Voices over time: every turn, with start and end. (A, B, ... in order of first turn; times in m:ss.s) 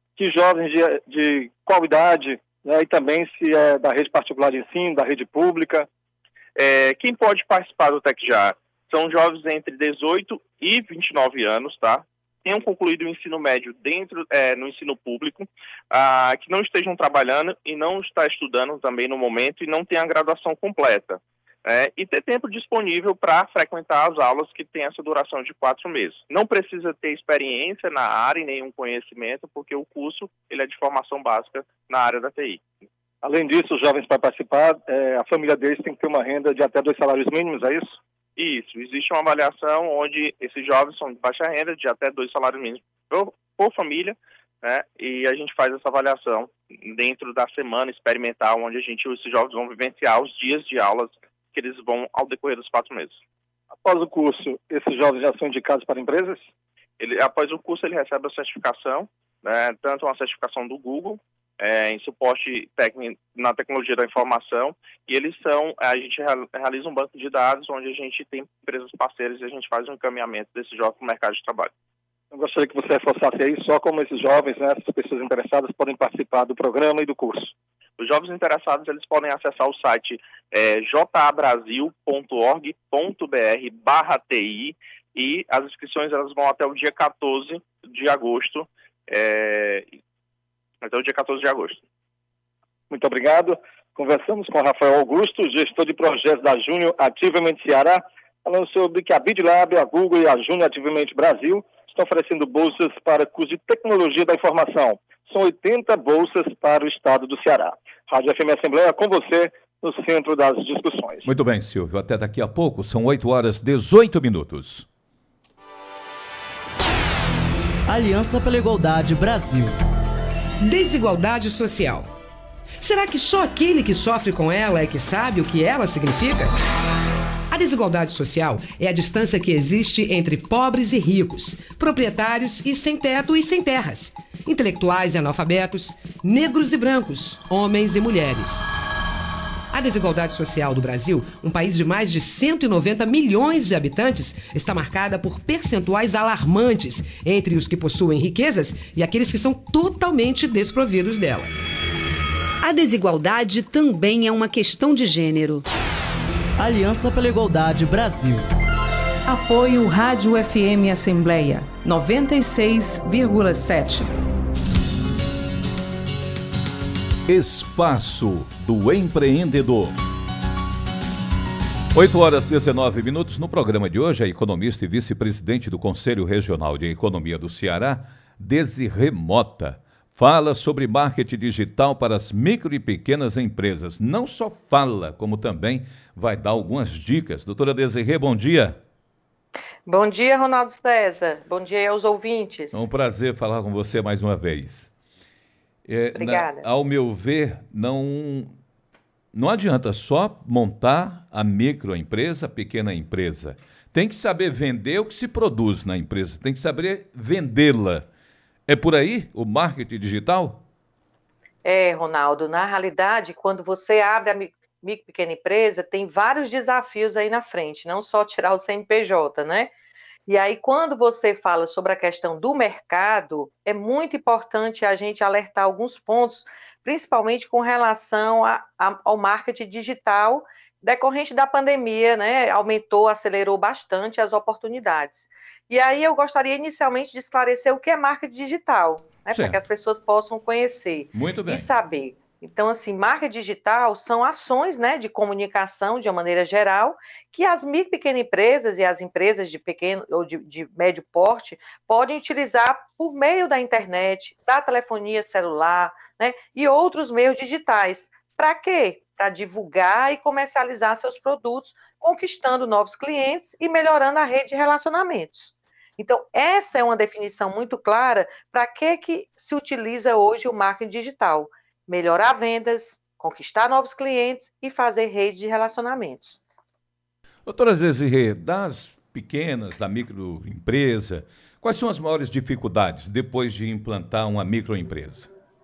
0:00.2-0:05.8 A
0:06.6-0:32.6 B
0:33.2-0:37.9 A
0:38.4-0:53.2 B
0:53.8-0:56.4 A
0:57.0-1:11.7 B
1:12.3-1:17.5 A
1:18.0-1:29.9 B
1:30.8-1:31.8 B
1:32.9-1:51.3 A
1:51.2-1:54.8 C
1:57.9-1:59.8 D
2:00.6-2:02.1 E
2:02.8-2:06.6 E
2:07.5-2:18.7 E
2:19.7-2:31.5 E
2:32.6-2:35.6 F
2:36.6-2:38.5 D
2:39.3-2:44.1 G
2:47.3-2:50.0 C
2:51.9-3:08.8 C
3:09.9-3:12.9 H
3:12.7-3:14.9 C
3:15.9-3:18.5 C
3:16.1-3:16.6 H
3:19.3-3:28.0 C
3:28.7-3:30.6 C
3:31.6-3:39.7 H
3:40.3-4:36.4 H
3:59.3-3:59.6 C
4:01.1-4:01.6 C
4:37.4-4:45.3 C